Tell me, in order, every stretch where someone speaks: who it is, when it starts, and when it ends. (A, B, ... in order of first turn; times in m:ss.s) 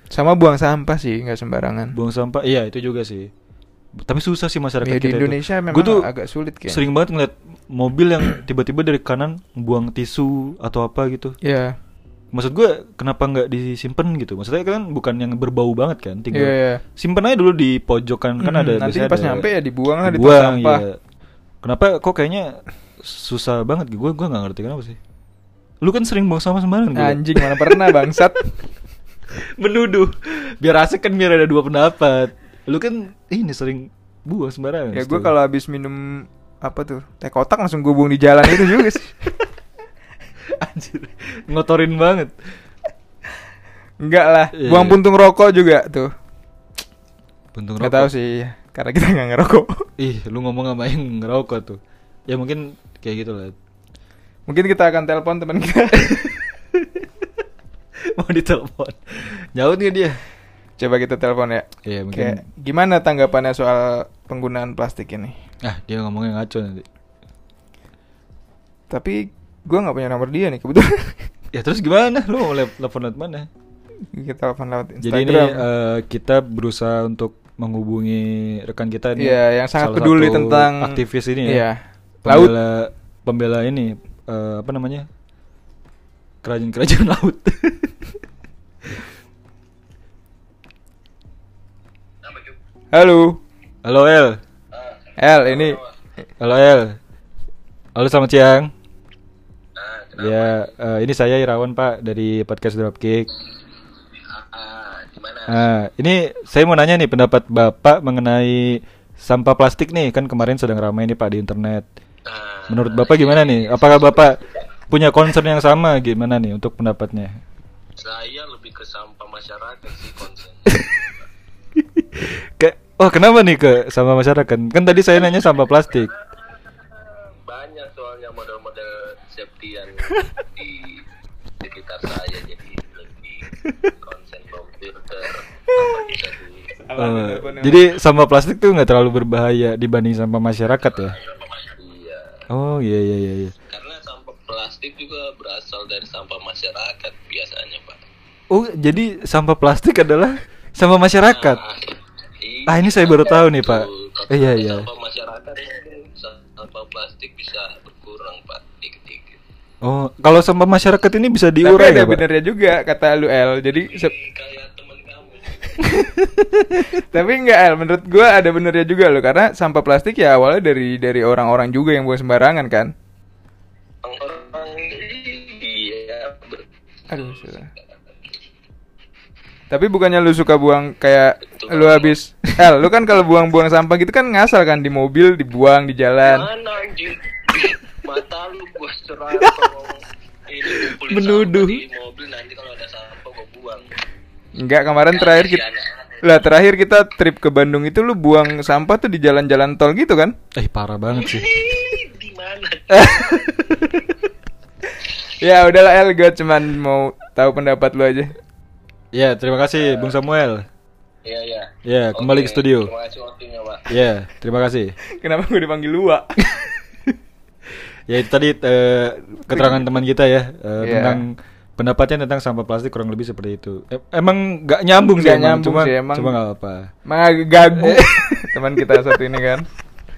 0:00.1-0:02.0 A
0:01.9-0:03.3 B
0:04.0-0:06.0 B
0:04.8-0:06.8 A
0:06.7-0:11.3 B
0:11.4-0:11.8 A
0:12.3-0:19.5 B
0:16.3-0:16.8 A
0:18.4-0:20.8 A
0:20.0-0:21.0 B
0:21.6-0:25.0 B
0:25.8-0:27.9 B
0:26.9-0:28.5 A
0:29.3-0:35.3 B
0:34.9-0:39.1 A
0:38.5-0:38.8 B
0:40.5-0:42.3 B
0:44.0-0:46.1 A
0:44.5-0:45.0 B
0:47.5-0:48.1 B
0:47.8-0:49.9 A
0:50.0-0:53.5 B
0:54.5-0:56.1 A
0:55.9-0:57.1 B
0:58.1-1:00.2 B
1:00.8-1:05.4 A
1:01.8-1:02.4 B
1:05.6-1:06.8 B
1:08.9-1:11.3 A
1:11.5-1:13.5 B
1:14.1-1:15.6 A
1:15.0-1:21.7 B
1:19.2-1:22.5 A
1:22.2-1:25.1 B
1:26.4-1:28.1 B
1:32.2-1:32.5 C
1:32.9-1:33.4 A
1:33.8-1:34.4 B
1:34.7-1:35.9 C
1:35.2-1:35.8 A
1:36.4-1:37.0 B
1:37.9-1:38.7 B
1:39.8-1:40.6 C
1:40.2-1:43.3 B
1:44.2-1:45.6 C
1:45.5-1:51.9 B
1:52.2-1:54.4 C
1:52.7-1:57.3 B
1:58.0-2:01.2 C
2:00.7-2:01.0 B
2:01.8-2:06.1 B
2:06.1-2:11.0 C
2:11.6-2:16.7 C
2:16.8-2:17.8 A
2:17.0-2:21.2 B
2:20.9-2:22.4 C
2:22.5-2:23.5 B
2:23.7-2:28.0 C
2:28.5-2:31.6 B
2:31.3-2:39.4 C
2:32.6-2:34.9 B
2:39.8-2:42.2 B
2:41.6-2:44.1 A
2:43.8-2:45.9 C
2:46.2-2:46.9 B
2:46.8-2:52.9 A
2:54.0-2:57.8 C
2:57.1-2:57.7 A
2:59.7-3:06.5 A
3:01.6-3:02.2 C
3:06.2-3:13.9 C
3:09.4-3:09.7 B
3:10.6-3:11.8 B
3:14.6-3:15.6 A
3:15.1-3:16.3 C
3:16.2-3:20.3 A
3:20.5-3:21.5 B
3:21.1-3:24.2 C
3:22.9-3:24.0 B
3:25.4-3:28.3 A
3:29.1-3:30.6 B
3:29.8-3:30.1 C
3:31.2-3:34.0 C
3:31.8-3:32.9 B
3:33.9-3:34.9 B
3:35.2-3:36.3 A
3:38.1-3:46.9 B
3:39.5-3:39.8 A
3:40.8-3:41.2 A
3:45.2-3:46.3 A
3:47.1-3:49.6 A
3:47.5-3:49.1 B